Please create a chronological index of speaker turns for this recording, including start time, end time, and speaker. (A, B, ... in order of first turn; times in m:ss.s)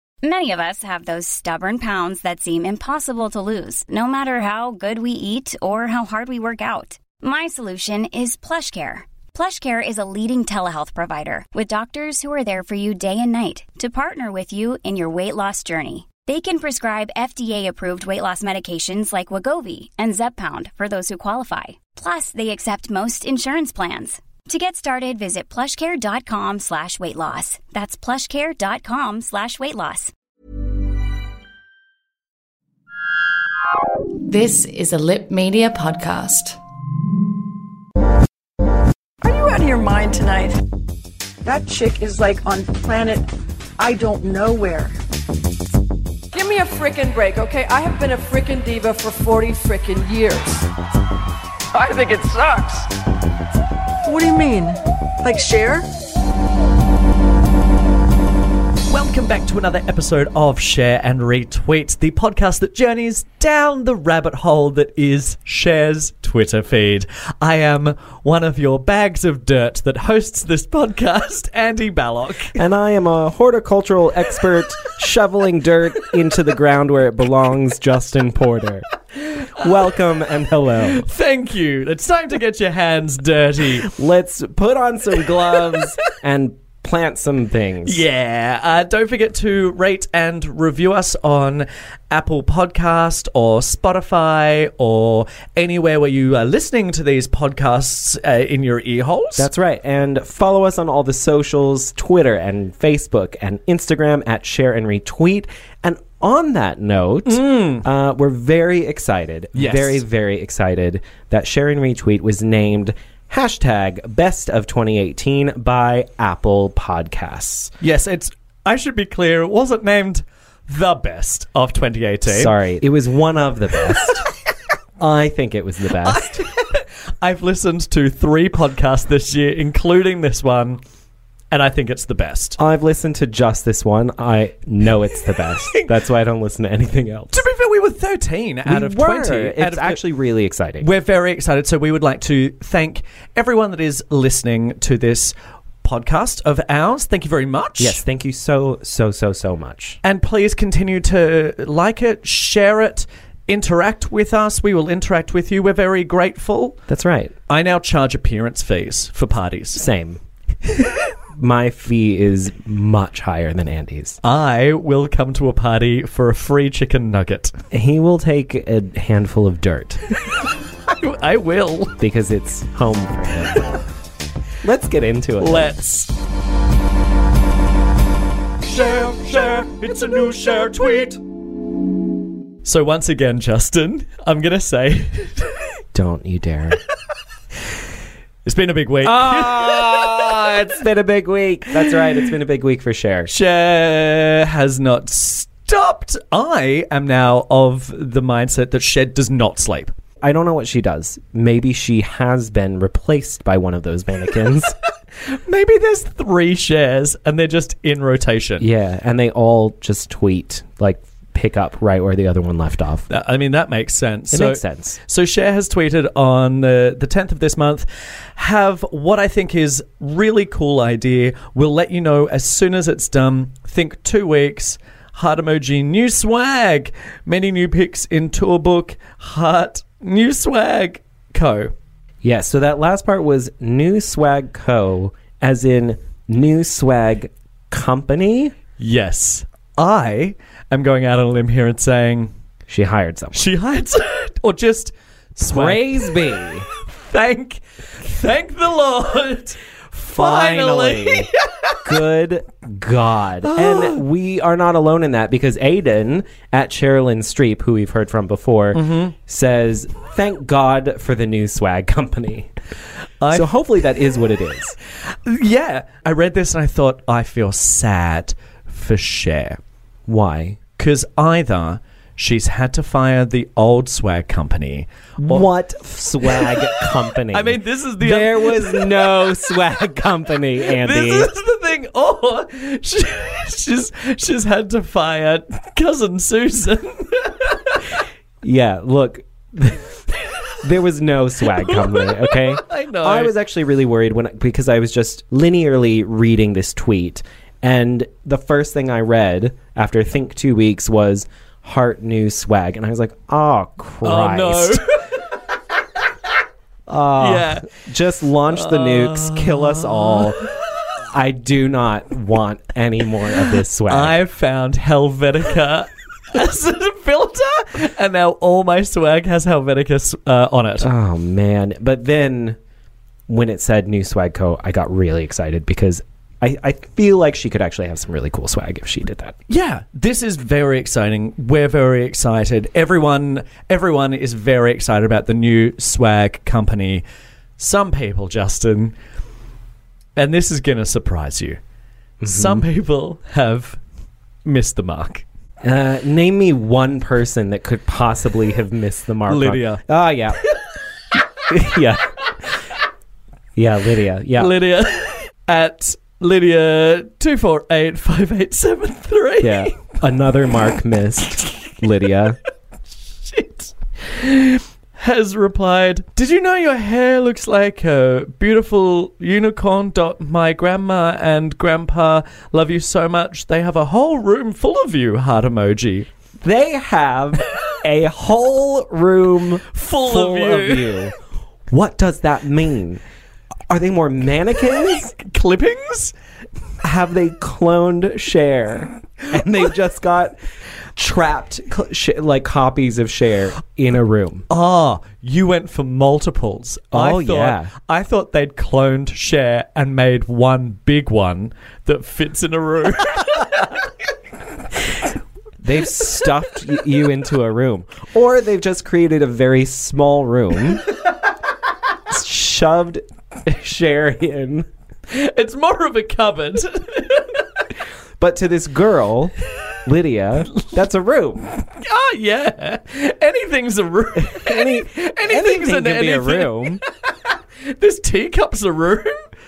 0:00.2-0:30.1 A
0:34.2-0:36.6 B
0:39.2-0:40.6 C
0:41.4-0:45.0 C
0:46.3-0:50.6 C
0:51.7-0:52.9 C
0:54.0-0:55.9 C
0:58.9-1:12.6 D
1:12.5-1:21.0 E
1:20.9-1:23.9 D
1:23.8-1:28.0 E
1:27.8-1:39.5 D
1:39.4-1:57.7 E
1:47.3-1:47.8 D
1:49.5-1:50.0 D
1:57.8-2:02.6 D
2:02.2-2:04.2 E
2:05.0-2:06.4 E
2:06.0-2:10.8 D
2:11.5-2:12.6 D
2:12.6-2:17.4 E
2:15.7-2:15.9 D
2:17.3-2:20.0 D
2:18.6-2:20.9 E
2:20.8-2:28.0 D
2:27.8-2:30.0 E
2:30.0-2:36.8 D
2:36.9-2:37.3 E
2:37.5-2:39.8 D
2:39.8-2:40.2 E
2:41.4-2:44.2 E
2:44.2-2:47.5 D
2:47.7-2:50.0 E
2:50.9-2:52.0 D
2:52.0-2:53.7 E
2:54.6-2:55.7 E
2:55.4-2:56.1 D
2:58.6-3:01.2 D
3:02.6-3:05.5 D
3:05.9-3:06.8 E
3:08.4-3:10.7 D
3:09.0-3:13.3 E
3:13.3-3:19.9 D
3:20.2-3:24.8 E
3:25.3-3:28.7 D
3:28.6-3:33.1 E
3:33.1-3:51.7 D
3:34.3-3:35.0 E
3:52.2-3:58.5 E
3:58.8-4:02.3 D
4:02.7-4:03.5 E
4:03.3-4:11.9 D
4:05.4-4:06.7 E
4:09.9-4:11.3 E
4:11.8-4:22.5 E
4:13.4-4:14.0 D
4:18.7-4:19.1 D
4:23.2-4:23.5 D
4:23.3-4:24.8 E
4:25.2-4:29.6 D
4:30.1-4:30.6 E
4:30.8-4:35.5 D
4:35.2-4:41.3 E
4:36.2-4:39.5 D
4:40.6-4:47.8 D
4:48.4-5:04.8 E
4:51.5-4:53.3 D
5:04.0-5:05.2 D
5:06.9-5:14.2 E
5:07.2-5:07.7 D
5:08.5-5:10.6 D
5:13.8-5:20.9 D
5:20.8-5:22.6 E
5:23.3-5:29.4 E
5:29.5-5:37.0 D
5:37.6-5:38.9 D
5:40.2-5:41.6 D
5:42.2-5:42.6 E
5:42.2-5:43.8 D
5:44.4-5:45.2 D
5:45.6-5:50.4 E
5:49.3-5:49.8 D
5:51.4-5:52.0 E
5:53.5-5:54.5 E
5:54.4-5:59.8 D
5:59.4-6:02.4 E
6:03.2-6:16.1 D
6:16.4-6:21.1 E
6:19.7-6:21.0 D
6:21.7-6:23.0 E
6:23.7-6:25.1 E
6:24.9-6:26.1 D
6:26.8-6:30.4 E
6:31.0-6:34.4 E
6:34.5-6:43.7 D
6:36.9-6:37.7 E
6:45.6-6:50.9 E
6:52.1-6:54.7 E
6:55.1-6:57.4 D
6:58.2-6:59.3 E
6:59.8-7:01.4 E
7:01.6-7:06.8 D
7:04.2-7:06.8 E
7:07.7-7:09.1 D